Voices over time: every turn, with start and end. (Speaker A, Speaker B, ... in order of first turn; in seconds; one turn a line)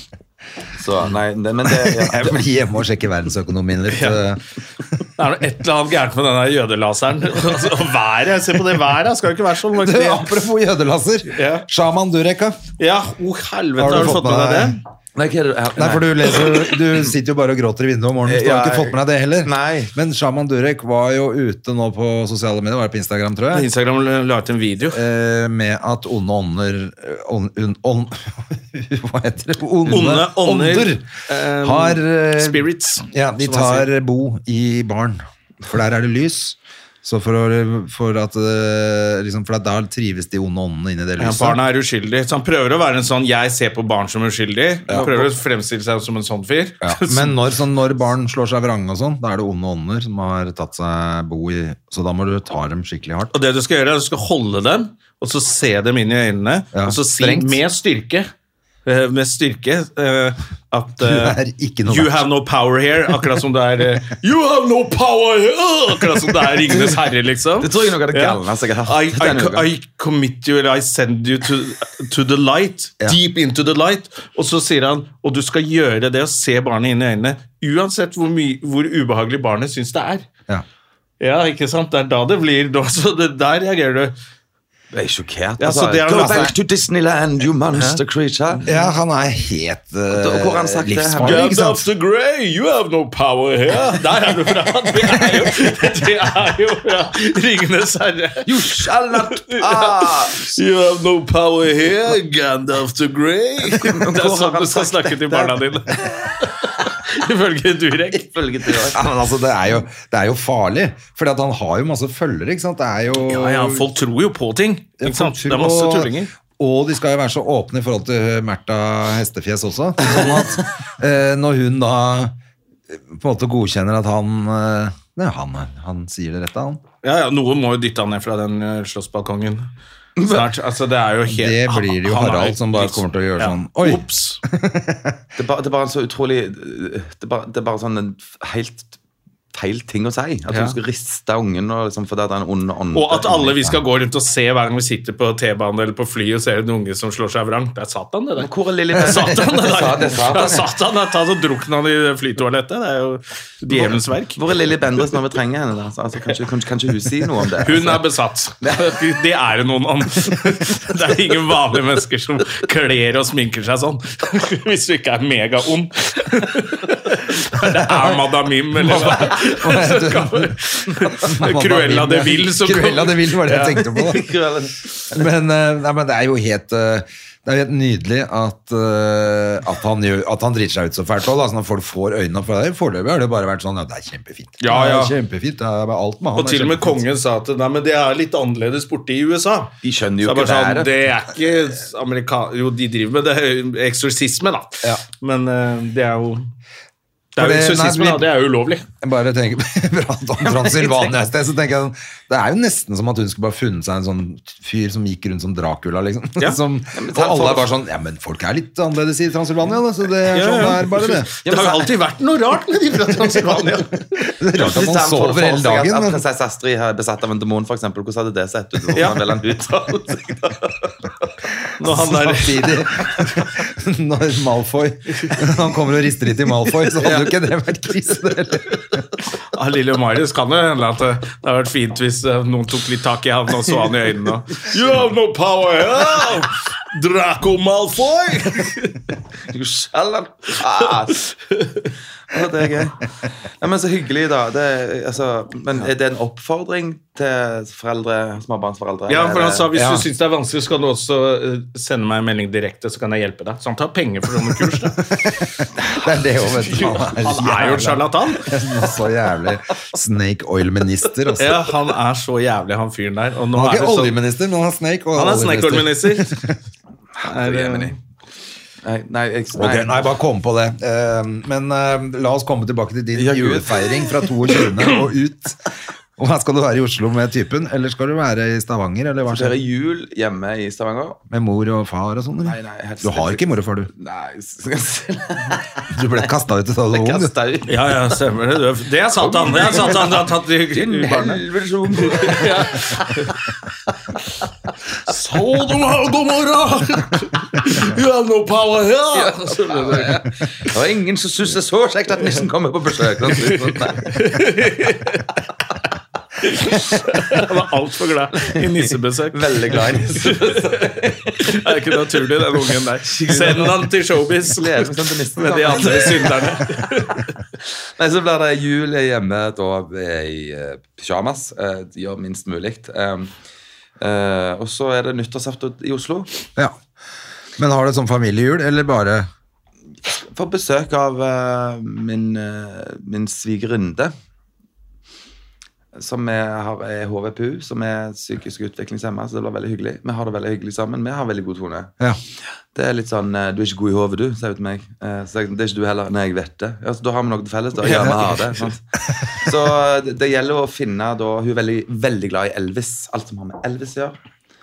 Speaker A: 0.8-2.5
Speaker B: 1.8-4.4
Speaker C: 3.9-4.2
Speaker C: 5.2-10.3
Speaker B: 9.7-12.6
Speaker C: 11.3-11.7
Speaker C: 12.8-14.8
Speaker B: 13.8-14.8
Speaker A: 15.2-16.6
Speaker B: 15.8-23.7
Speaker A: 18.2-19.9
Speaker C: 23.5-25.0
Speaker B: 24.9-31.1
Speaker C: 29.9-33.9
Speaker B: 31.6-41.6
Speaker C: 41.2-47.4
Speaker B: 44.9-45.3
Speaker B: 46.8-53.3
Speaker C: 53.3-58.3
Speaker B: 56.7-57.6
Speaker C: 58.9-80.3
Speaker B: 61.0-62.3
Speaker A: 67.6-69.7
Speaker C: 81.2-84.1
Speaker A: 84.9-88.7
Speaker C: 85.6-86.5
Speaker B: 86.2-86.5
Speaker B: 88.7-91.9
Speaker A: 90.1-91.5
Speaker C: 91.2-98.8
Speaker A: 98.5-100.6
Speaker C: 99.3-108.3
Speaker A: 103.7-105.6
Speaker A: 108.1-109.0
Speaker B: 108.9-113.8
Speaker C: 113.2-116.3
Speaker B: 115.0-122.3
Speaker B: 122.9-126.8
Speaker C: 127.0-134.4
Speaker A: 130.2-130.5
Speaker B: 131.3-135.2
Speaker A: 135.4-139.0
Speaker A: 139.5-143.6
Speaker C: 140.5-140.8
Speaker C: 142.9-154.4
Speaker A: 148.4-150.7
Speaker A: 153.7-158.0
Speaker C: 157.6-173.8
Speaker A: 158.6-159.0
Speaker B: 167.6-168.2
Speaker B: 168.8-170.6
Speaker B: 171.1-174.2
Speaker A: 173.8-175.3
Speaker B: 175.1-187.0
Speaker C: 184.6-185.2
Speaker C: 186.3-189.7
Speaker A: 189.8-190.9
Speaker C: 190.2-196.5
Speaker C: 197.4-198.9
Speaker B: 197.4-198.3
Speaker B: 199.0-211.3
Speaker A: 200.4-201.2
Speaker A: 206.9-207.7
Speaker C: 210.3-214.3
Speaker A: 211.5-211.9
Speaker B: 214.3-216.2
Speaker A: 214.6-220.7
Speaker C: 218.9-219.2
Speaker C: 221.8-222.8
Speaker B: 221.8-229.0
Speaker A: 226.9-227.4
Speaker C: 229.5-239.1
Speaker A: 239.5-241.2
Speaker C: 241.2-241.9
Speaker A: 242.3-249.7
Speaker C: 249.1-255.1
Speaker B: 249.7-250.1
Speaker B: 255.0-261.7
Speaker C: 256.7-258.6
Speaker C: 261.4-264.2
Speaker B: 263.5-266.6
Speaker C: 265.2-266.4
Speaker A: 267.2-268.0
Speaker C: 267.2-268.0
Speaker A: 268.8-270.1
Speaker B: 269.6-279.6
Speaker A: 273.1-274.7
Speaker A: 279.3-281.2
Speaker B: 281.3-283.9
Speaker A: 282.4-286.3
Speaker B: 285.9-287.3
Speaker A: 286.9-288.0
Speaker C: 287.7-291.4
Speaker A: 289.2-293.1
Speaker C: 292.1-293.5
Speaker C: 295.1-300.2
Speaker A: 299.1-304.2
Speaker C: 304.0-305.4
Speaker C: 306.4-317.3
Speaker A: 308.4-311.5
Speaker A: 313.0-316.8
Speaker A: 318.0-323.3
Speaker A: 324.0-326.3
Speaker B: 327.6-329.3
Speaker A: 330.3-334.1
Speaker A: 335.9-341.9
Speaker A: 342.8-354.2
Speaker B: 347.8-348.4
Speaker B: 349.1-349.5